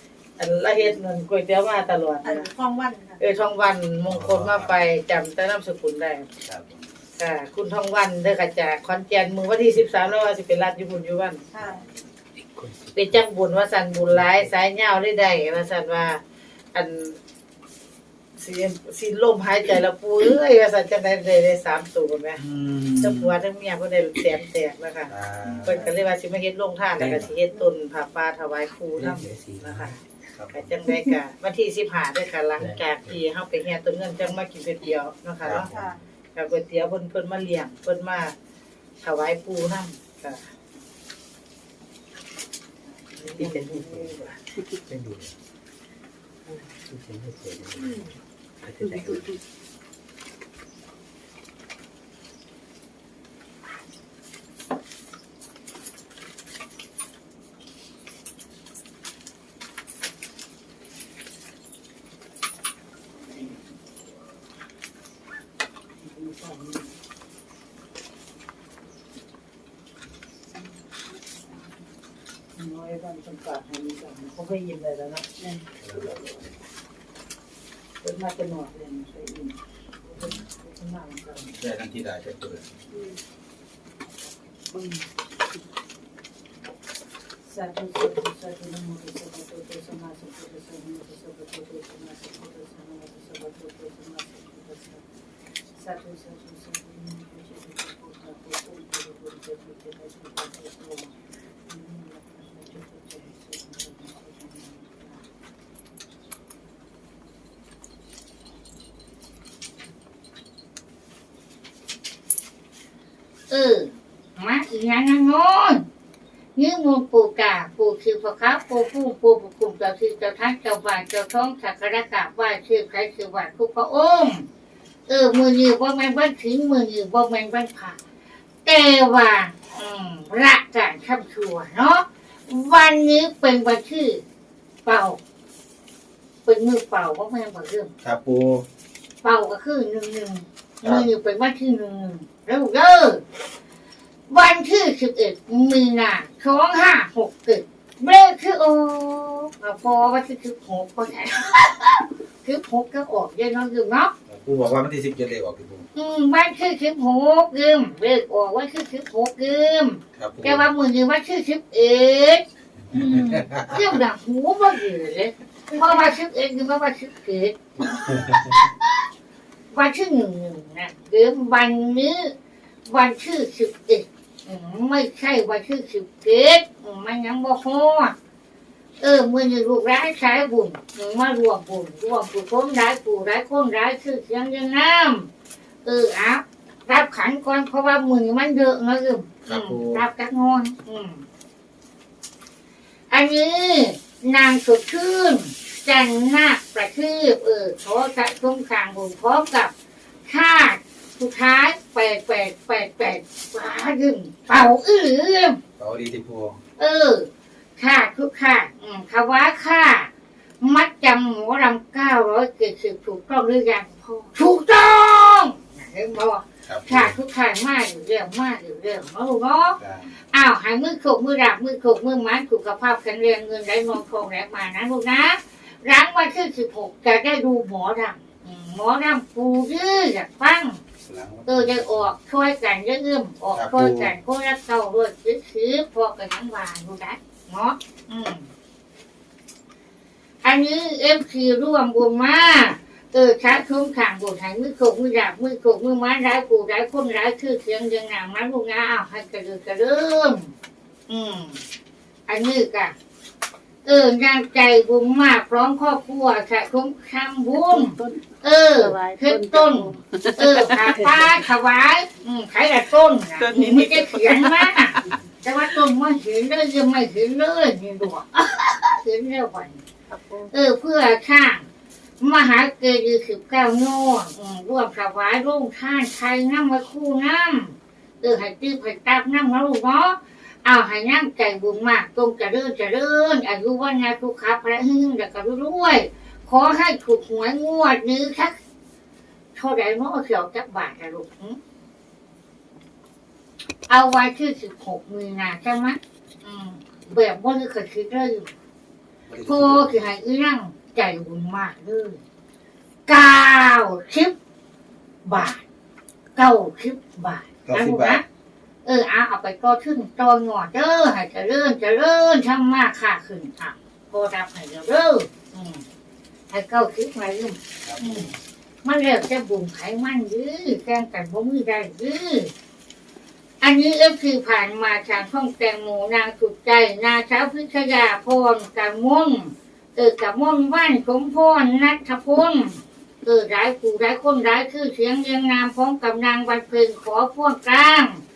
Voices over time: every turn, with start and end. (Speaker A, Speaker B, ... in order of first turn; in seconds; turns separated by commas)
Speaker A: 0.4-2.5, Speaker B: 2.2-3.2, Speaker A: 3.2-6.3, Speaker C: 4.1-4.7, Speaker C: 6.4-6.9, Speaker A: 7.2-11.4, Speaker B: 11.5-11.8, Speaker A: 12.9-16.2, Speaker A: 16.7-17.2, Speaker A: 18.4-22.4, Speaker C: 22.4-23.4, Speaker A: 23.0-30.0, Speaker C: 25.1-25.9, Speaker D: 27.0-27.2, Speaker C: 27.0-27.3, Speaker D: 29.0-29.9, Speaker C: 30.3-30.7, Speaker A: 30.5-35.7, Speaker D: 32.6-33.0, Speaker C: 35.4-35.9, Speaker B: 35.7-36.0, Speaker A: 36.4-38.4, Speaker A: 39.0-40.4, Speaker A: 42.9-44.4, Speaker D: 43.4-44.0, Speaker D: 44.9-45.3, Speaker D: 46.9-48.0, Speaker D: 48.6-49.4, Speaker A: 66.0-66.9, Speaker A: 72.6-75.3, Speaker B: 75.4-75.7, Speaker C: 75.8-76.4, Speaker A: 76.0-76.4, Speaker A: 78.0-81.5, Speaker C: 81.6-82.7, Speaker B: 84.7-85.0, Speaker A: 87.5-95.0, Speaker A: 95.8-101.1, Speaker A: 101.7-105.2, Speaker E: 113.5-115.8, Speaker E: 116.6-124.5, Speaker E: 125.1-128.0, Speaker E: 128.7-134.2, Speaker E: 134.8-135.2, Speaker E: 136.5-137.9, Speaker C: 138.0-138.7, Speaker E: 139.2-143.2, Speaker C: 140.8-141.1, Speaker E: 144.3-154.1, Speaker C: 154.3-155.9, Speaker E: 155.9-167.6, Speaker C: 160.2-160.7, Speaker C: 162.9-164.0, Speaker C: 167.8-168.6, Speaker E: 169.7-172.3, Speaker E: 172.9-178.2, Speaker E: 179.0-185.3, Speaker E: 185.8-191.2, Speaker C: 189.4-190.0, Speaker E: 193.1-199.7, Speaker E: 200.3-205.6, Speaker C: 205.8-206.6, Speaker E: 206.8-219.8, Speaker C: 216.7-217.2, Speaker C: 219.8-220.1, Speaker E: 220.3-230.8, Speaker C: 231.0-232.1, Speaker E: 231.5-238.5, Speaker C: 233.5-234.1, Speaker E: 240.4-250.5, Speaker E: 251.1-251.6, Speaker E: 252.3-252.9, Speaker E: 253.8-269.8, Speaker B: 257.6-261.3, Speaker B: 263.4-264.7, Speaker B: 270.1-270.5, Speaker E: 270.5-271.7, Speaker E: 272.2-288.6, Speaker E: 289.6-291.6, Speaker E: 293.9-298.5, Speaker C: 299.3-300.0, Speaker E: 299.4-302.2, Speaker E: 303.1-304.3, Speaker E: 305.2-305.6, Speaker E: 306.4-308.2, Speaker C: 307.7-308.2, Speaker E: 308.9-315.8, Speaker E: 316.5-318.3, Speaker C: 317.8-318.4, Speaker E: 318.8-322.5, Speaker E: 323.6-338.2